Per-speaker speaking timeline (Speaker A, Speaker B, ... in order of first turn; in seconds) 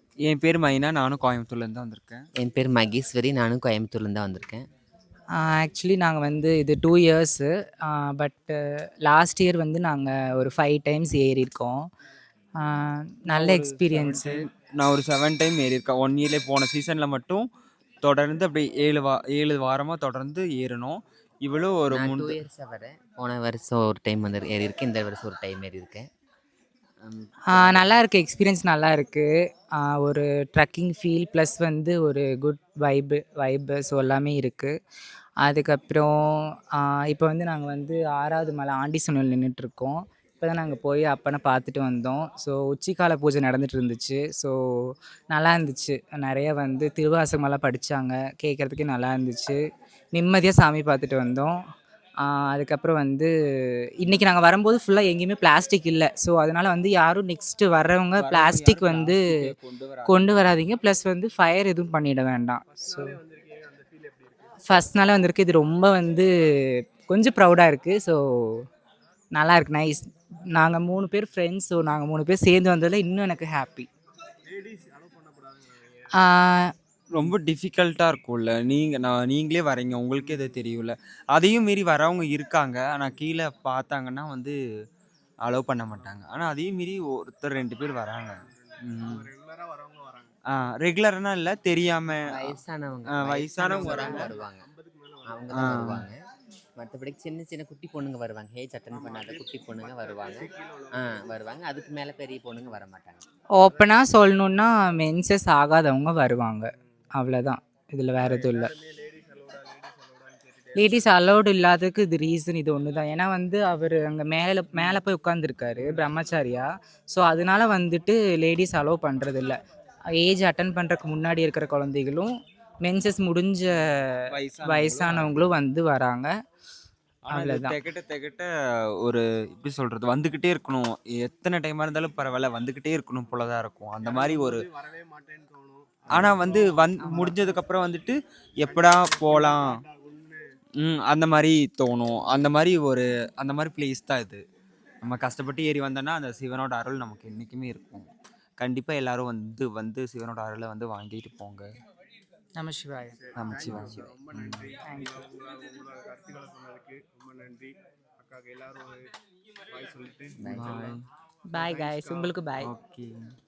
Speaker A: 0.2-2.3, 13.3-17.5, 18.0-22.4, 27.0-28.0, 58.2-60.6, 77.1-84.6, 85.4-89.3, 90.5-92.6, 93.2-94.3, 95.5-96.1, 124.3-125.4, 127.3-128.5, 129.0-134.6, 136.1-139.7, 140.8-144.4, 145.0-151.7, 153.4-154.7, 160.5-161.0, 162.6-163.2
Speaker B: 2.4-4.7, 21.9-26.1, 92.3-94.7, 95.3-96.2, 96.8-100.5, 101.0-103.2, 160.4-160.7
Speaker C: 5.3-8.5, 9.1-11.9, 12.6-14.4, 27.5-34.7, 35.4-49.6, 50.1-51.5, 52.2-53.3, 54.0-59.3, 60.1-63.1, 64.7-66.3, 67.1-68.6, 69.3-73.9, 76.2-76.7, 103.5-108.7, 110.8-119.6, 120.2-122.3, 122.8-123.8, 124.6-126.3, 127.3-127.8, 136.4-137.4, 152.6-154.1, 154.9-155.2, 161.5-162.7
Speaker D: 62.7-64.6, 74.5-76.2, 80.2-80.6, 88.4-90.3, 93.6-95.8, 98.9-102.0, 106.8-107.0, 108.2-111.1, 134.0-137.2, 138.6-140.4, 153.2-159.0, 159.7-160.9, 161.6-162.3